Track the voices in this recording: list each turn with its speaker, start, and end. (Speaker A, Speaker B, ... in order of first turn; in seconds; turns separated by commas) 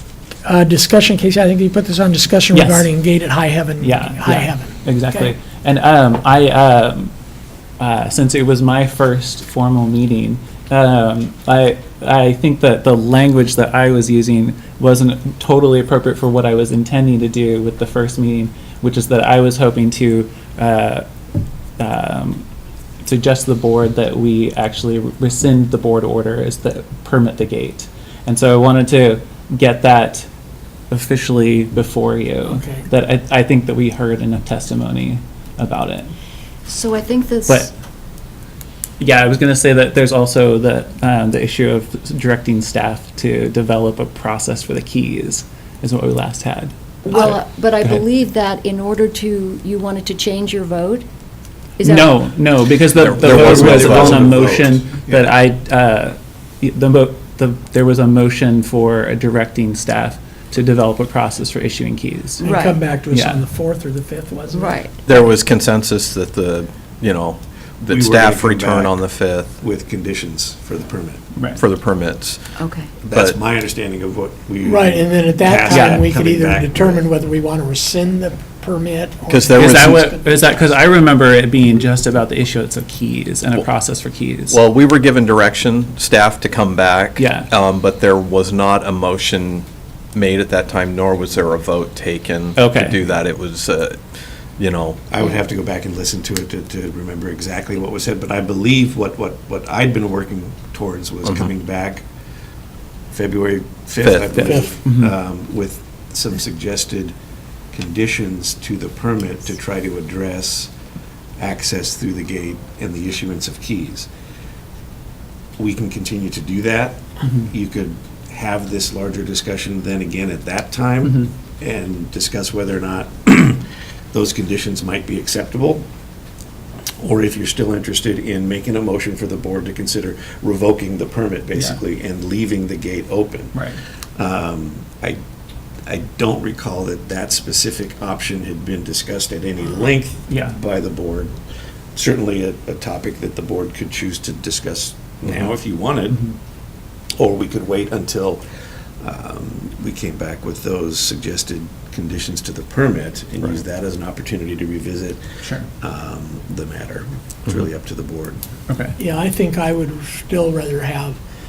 Speaker A: 0.4-5.3, Speaker B: 2.5-2.9, Speaker B: 3.8-7.1, Speaker B: 7.8-21.1, Speaker B: 21.8-22.4, Speaker B: 23.0-30.3, Speaker B: 30.9-36.1, Speaker A: 32.5-32.9, Speaker C: 36.6-37.7, Speaker B: 37.5-37.7, Speaker B: 39.0-48.0, Speaker C: 47.0-51.1, Speaker C: 51.8-52.2, Speaker B: 51.8-62.4, Speaker D: 53.0-54.5, Speaker E: 53.0-55.3, Speaker A: 62.4-65.2, Speaker C: 62.4-62.8, Speaker B: 63.1-63.4, Speaker C: 64.5-65.0, Speaker D: 65.0-69.6, Speaker E: 67.9-69.0, Speaker E: 69.6-71.2, Speaker B: 71.3-71.6, Speaker D: 71.5-73.4, Speaker C: 72.6-73.0, Speaker E: 73.1-77.0, Speaker A: 74.6-80.7, Speaker B: 75.7-76.0, Speaker D: 79.3-80.1, Speaker B: 79.5-84.6, Speaker D: 84.5-94.0, Speaker B: 87.2-87.5, Speaker B: 92.5-93.0, Speaker D: 94.5-95.0, Speaker E: 95.1-102.0, Speaker D: 101.2-101.5, Speaker E: 103.1-107.1, Speaker D: 104.0-104.5, Speaker B: 104.3-105.1, Speaker E: 107.7-110.7, Speaker E: 111.4-114.1, Speaker E: 115.6-125.8, Speaker E: 127.0-133.6, Speaker B: 133.5-133.8, Speaker E: 134.2-135.2, Speaker E: 135.8-141.3, Speaker B: 140.3-140.6, Speaker E: 141.9-146.3, Speaker E: 147.1-148.4, Speaker E: 149.0-155.2, Speaker E: 155.8-158.4, Speaker B: 158.7-158.9, Speaker A: 159.0-161.2